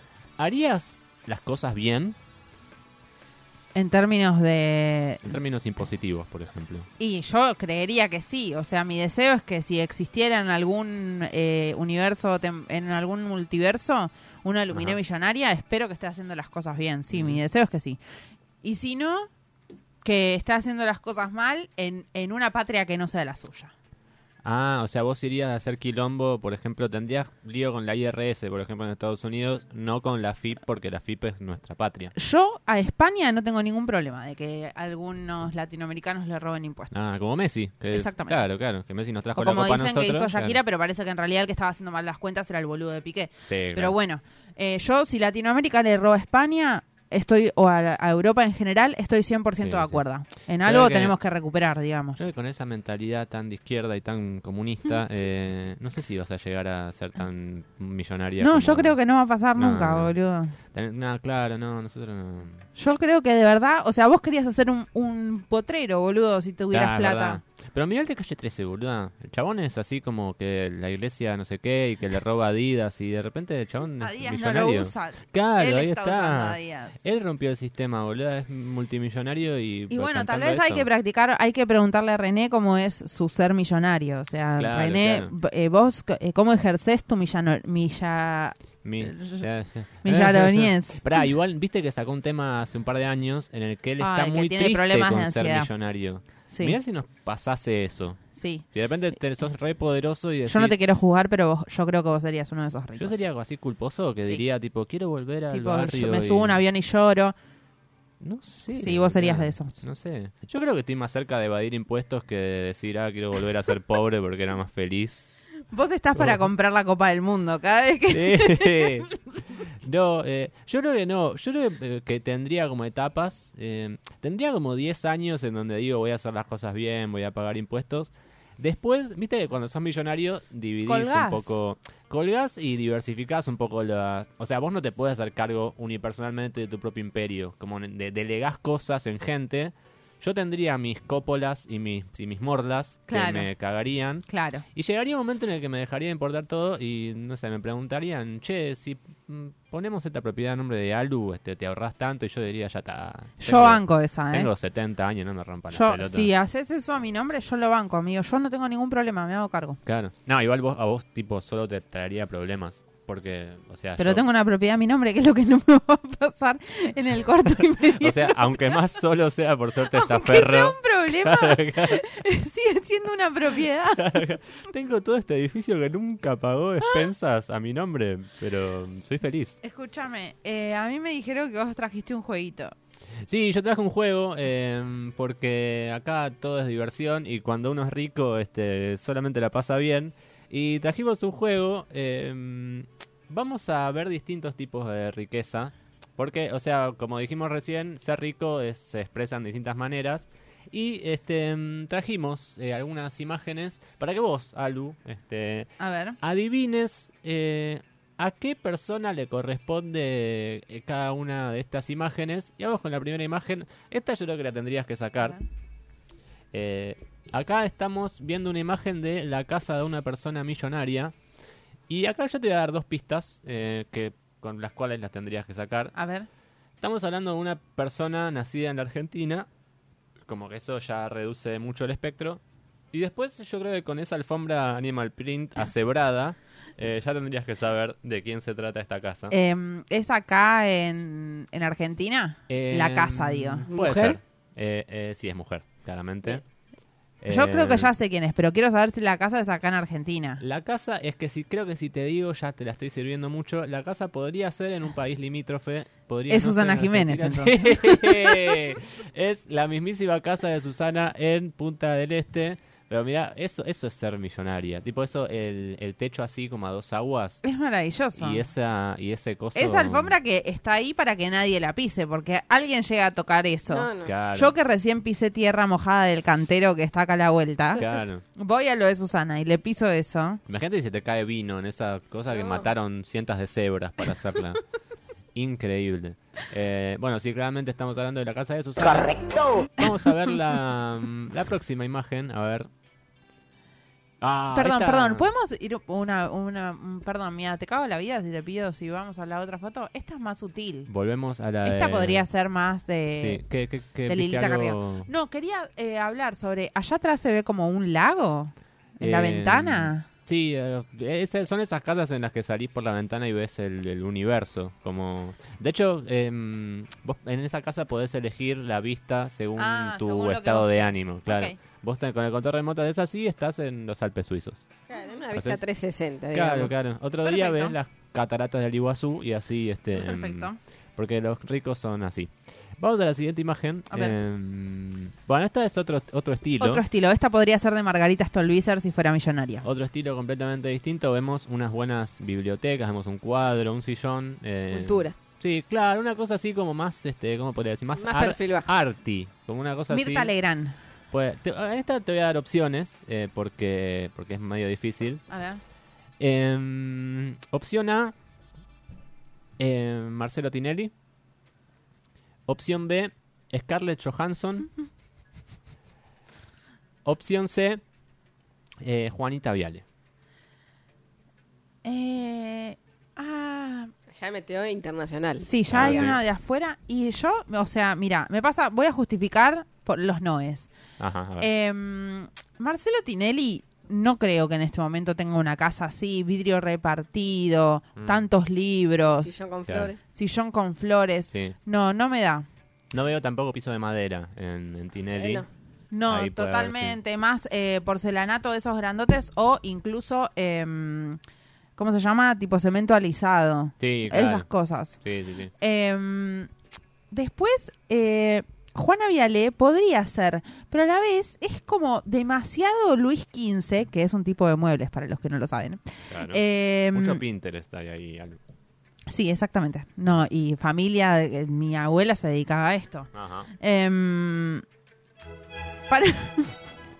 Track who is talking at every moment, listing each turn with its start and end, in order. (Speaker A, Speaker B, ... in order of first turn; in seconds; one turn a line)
Speaker A: 0.4-2.2
Speaker B: 3.8-5.3
Speaker A: 5.2-6.9
Speaker B: 7.0-18.0
Speaker A: 14.7-15.0
Speaker A: 17.1-17.4
Speaker B: 18.6-19.3
Speaker B: 20.0-23.7
Speaker A: 24.4-32.1
Speaker B: 32.2-37.1
Speaker A: 36.9-40.6
Speaker B: 37.9-38.4
Speaker B: 39.4-52.2
Speaker A: 43.5-44.0
Speaker A: 49.6-50.0
Speaker A: 50.6-51.2
Speaker A: 52.2-59.0
Speaker B: 58.4-60.5
Speaker A: 59.5-60.1
Speaker A: 60.7-62.7
Speaker B: 62.8-67.4
Speaker A: 66.7-80.9
Speaker B: 74.0-77.0
Speaker B: 79.9-89.5
Speaker A: 84.6-85.3
Speaker A: 88.8-98.2
Speaker B: 90.0-91.1
Speaker B: 94.0-95.7
Speaker B: 96.5-96.8
Speaker B: 98.4-98.7
Speaker A: 98.7-100.8
Speaker B: 100.5-103.2
Speaker A: 103.0-106.6
Speaker B: 105.5-107.3
Speaker A: 108.2-115.3
Speaker B: 108.8-109.8
Speaker B: 115.7-119.1
Speaker A: 116.2-116.5
Speaker A: 118.1-119.1
Speaker A: 119.7-156.3
Speaker B: 130.9-131.6
Speaker B: 143.1-143.5
Speaker B: 144.3-144.7
Speaker B: 153.4-154.5
Speaker B: 155.7-159.8
Speaker A: 159.9-164.2
Speaker B: 164.0-168.8
Speaker A: 167.9-172.0
Speaker B: 169.9-174.2
Speaker A: 173.9-179.6
Speaker B: 179.6-182.7
Speaker A: 183.2-205.7
Speaker B: 205.8-206.2
Speaker A: 206.2-215.4
Speaker A: 216.5-221.1
Speaker A: 221.9-225.9
Speaker B: 226.0-226.3
Speaker A: 226.8-229.5
Speaker A: 230.3-232.4
Speaker A: 232.9-239.4
Speaker B: 239.3-243.7
Speaker A: 242.5-246.4
Speaker C: 243.7-244.2
Speaker A: 247.2-247.9
Speaker B: 247.3-250.4
Speaker A: 250.4-267.4
Speaker B: 256.3-258.6
Speaker B: 267.4-268.4
Speaker A: 268.2-270.1
Speaker B: 269.6-277.8
Speaker C: 273.7-274.1
Speaker A: 274.0-274.6
Speaker A: 277.8-278.2
Speaker B: 278.4-280.4
Speaker A: 280.5-284.6
Speaker C: 282.3-282.7
Speaker A: 285.4-292.7
Speaker A: 294.2-295.3
Speaker B: 294.5-300.9
Speaker A: 300.9-302.3
Speaker B: 301.6-303.4
Speaker A: 303.2-305.1
Speaker B: 304.1-310.1
Speaker A: 309.0-324.7
Speaker B: 319.6-321.6
Speaker C: 324.9-326.7
Speaker A: 325.3-325.6
Speaker A: 326.3-336.8
Speaker B: 327.2-327.8
Speaker B: 330.0-330.6
Speaker B: 336.6-339.6
Speaker A: 339.6-350.3
Speaker C: 344.7-345.1
Speaker C: 348.0-348.7
Speaker B: 349.9-350.8
Speaker A: 351.1-355.2
Speaker B: 355.3-355.6
Speaker A: 356.2-358.1
Speaker A: 359.6-360.9
Speaker A: 362.5-364.7
Speaker A: 367.1-367.8
Speaker A: 368.8-369.8
Speaker B: 371.8-373.9
Speaker C: 374.1-376.1
Speaker B: 375.4-380.7
Speaker A: 375.7-376.2
Speaker A: 381.0-381.5
Speaker B: 381.4-389.4
Speaker A: 388.0-388.2
Speaker C: 389.2-390.0
Speaker A: 389.7-389.9
Speaker B: 390.1-392.5
Speaker A: 391.3-391.6
Speaker A: 392.9-395.4
Speaker C: 395.2-395.5
Speaker B: 395.9-401.2
Speaker A: 396.1-397.0
Speaker B: 401.8-405.0
Speaker A: 403.8-404.5
Speaker A: 405.0-405.5
Speaker B: 405.6-406.5
Speaker B: 407.1-417.2
Speaker A: 416.1-418.4
Speaker B: 419.1-424.6
Speaker A: 423.1-423.5
Speaker B: 425.9-426.6